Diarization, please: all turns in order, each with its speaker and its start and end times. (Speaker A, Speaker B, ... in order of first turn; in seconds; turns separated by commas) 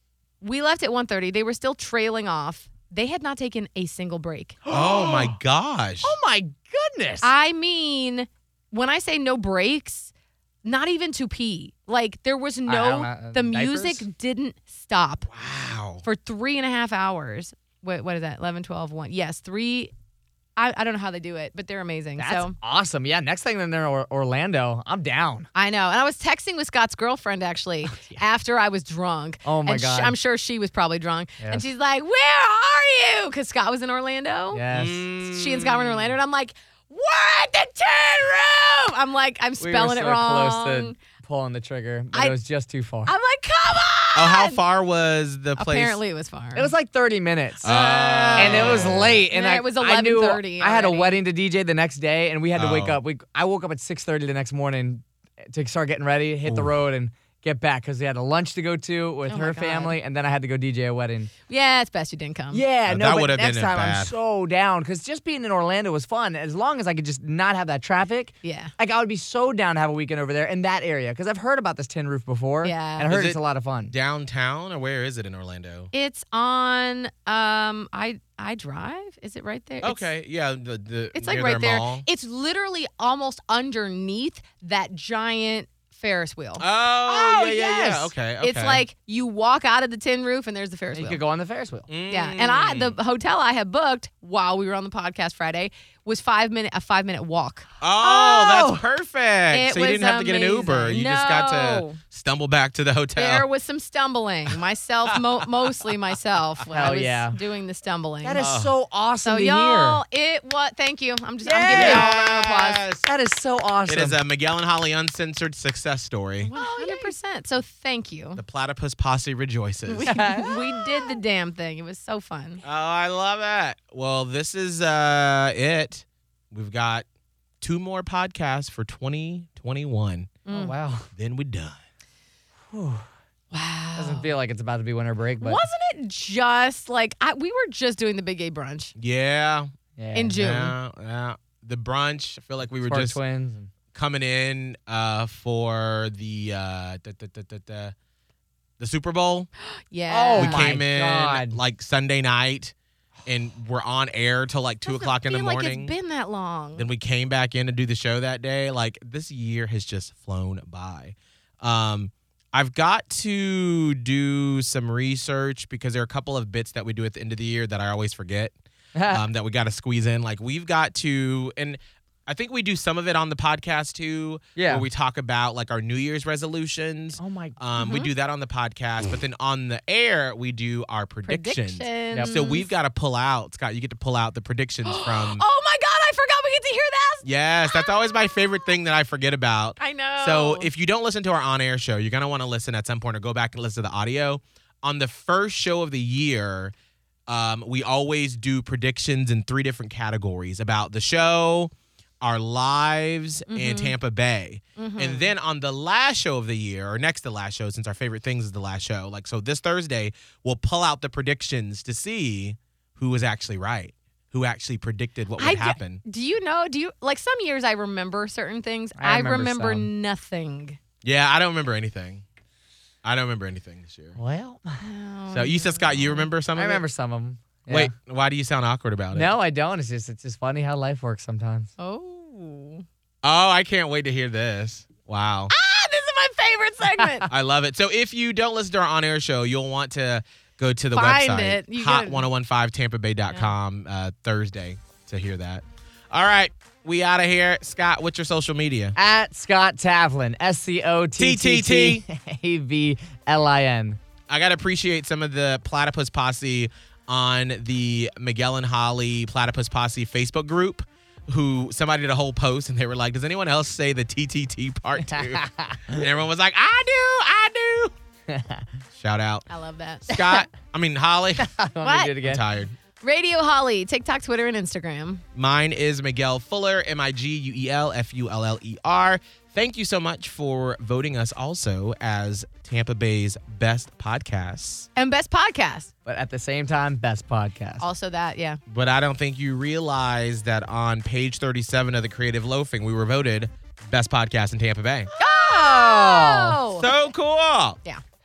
Speaker A: 0.4-4.6, Speaker B: 4.7-5.3, Speaker C: 4.7-6.2, Speaker B: 6.0-7.3, Speaker A: 7.2-10.1, Speaker A: 10.7-15.3, Speaker B: 12.7-14.1, Speaker C: 15.3-16.1, Speaker A: 16.0-19.9, Speaker A: 20.6-22.6, Speaker B: 22.2-25.5, Speaker A: 25.6-34.6, Speaker B: 27.9-28.2, Speaker B: 29.4-30.2, Speaker B: 31.4-31.7, Speaker B: 34.5-35.1, Speaker C: 34.7-36.2, Speaker A: 35.2-41.0, Speaker B: 39.6-43.1, Speaker A: 43.1-44.6, Speaker C: 44.1-46.0, Speaker A: 45.6-46.7, Speaker B: 46.5-47.8, Speaker C: 47.6-49.2, Speaker A: 47.6-51.2, Speaker B: 48.4-61.3, Speaker C: 52.5-53.0, Speaker C: 56.5-56.7, Speaker A: 59.3-60.0, Speaker A: 61.5-62.6, Speaker B: 62.5-73.9, Speaker C: 62.9-64.1, Speaker A: 68.4-68.7, Speaker A: 72.6-73.1, Speaker C: 73.1-75.9, Speaker A: 75.9-80.1, Speaker C: 79.8-82.1, Speaker A: 81.2-91.2, Speaker C: 86.6-88.8, Speaker B: 90.9-91.9, Speaker C: 91.9-93.0, Speaker A: 92.1-98.6, Speaker C: 97.8-103.5, Speaker B: 98.2-98.8, Speaker A: 99.5-102.0, Speaker A: 103.2-108.5, Speaker B: 106.7-107.4, Speaker B: 108.2-110.0, Speaker C: 108.4-108.7, Speaker A: 109.2-112.8, Speaker B: 111.4-112.1, Speaker C: 111.7-113.1, Speaker B: 113.0-114.2, Speaker C: 113.9-116.5, Speaker A: 116.4-118.4, Speaker B: 116.5-117.1, Speaker C: 118.4-120.3, Speaker A: 119.9-122.6, Speaker B: 120.1-121.2, Speaker C: 122.6-127.0, Speaker C: 127.6-130.3, Speaker A: 130.5-130.8, Speaker B: 130.5-131.1, Speaker C: 131.2-131.8, Speaker B: 132.7-133.1, Speaker A: 133.5-134.3, Speaker B: 134.0-135.6, Speaker A: 135.4-138.9, Speaker C: 139.0-139.7, Speaker B: 140.0-140.5, Speaker A: 140.1-140.7, Speaker C: 140.4-143.2, Speaker B: 142.8-143.7, Speaker C: 143.9-147.9, Speaker C: 148.8-149.5, Speaker A: 149.7-150.7, Speaker B: 150.1-151.6, Speaker C: 150.4-152.7, Speaker C: 153.2-155.9, Speaker A: 154.8-156.9, Speaker C: 156.8-168.6, Speaker B: 168.9-169.2, Speaker C: 169.1-185.4, Speaker B: 174.6-174.9, Speaker B: 177.2-177.6, Speaker A: 177.8-178.1, Speaker A: 181.3-182.7, Speaker B: 182.1-182.4, Speaker A: 184.8-188.3, Speaker C: 187.2-196.7, Speaker A: 189.8-190.7, Speaker C: 197.3-216.0, Speaker A: 203.5-203.9, Speaker A: 204.8-205.3, Speaker A: 215.4-220.8, Speaker B: 219.0-219.9, Speaker C: 221.0-222.2, Speaker C: 223.0-224.2, Speaker B: 224.2-224.8, Speaker A: 224.8-226.3, Speaker C: 225.3-226.8, Speaker B: 226.6-227.9, Speaker C: 227.7-229.3, Speaker B: 229.1-231.7, Speaker A: 231.8-232.8, Speaker C: 233.2-235.5, Speaker A: 235.5-237.3, Speaker B: 237.0-237.2, Speaker C: 237.3-249.0, Speaker A: 240.9-242.2, Speaker B: 249.0-254.0, Speaker C: 251.2-252.0, Speaker C: 254.3-267.9, Speaker B: 265.0-266.1, Speaker B: 268.3-268.7, Speaker C: 269.0-269.4, Speaker A: 269.5-270.2, Speaker C: 270.1-271.5, Speaker B: 270.1-270.4, Speaker B: 271.4-272.4, Speaker A: 271.8-272.1, Speaker C: 272.2-272.7, Speaker A: 273.0-275.2, Speaker C: 275.4-284.9, Speaker A: 285.0-285.9, Speaker B: 286.1-287.9, Speaker A: 287.8-288.6, Speaker C: 288.7-295.1, Speaker B: 295.1-296.6, Speaker A: 295.2-296.9, Speaker C: 296.8-297.8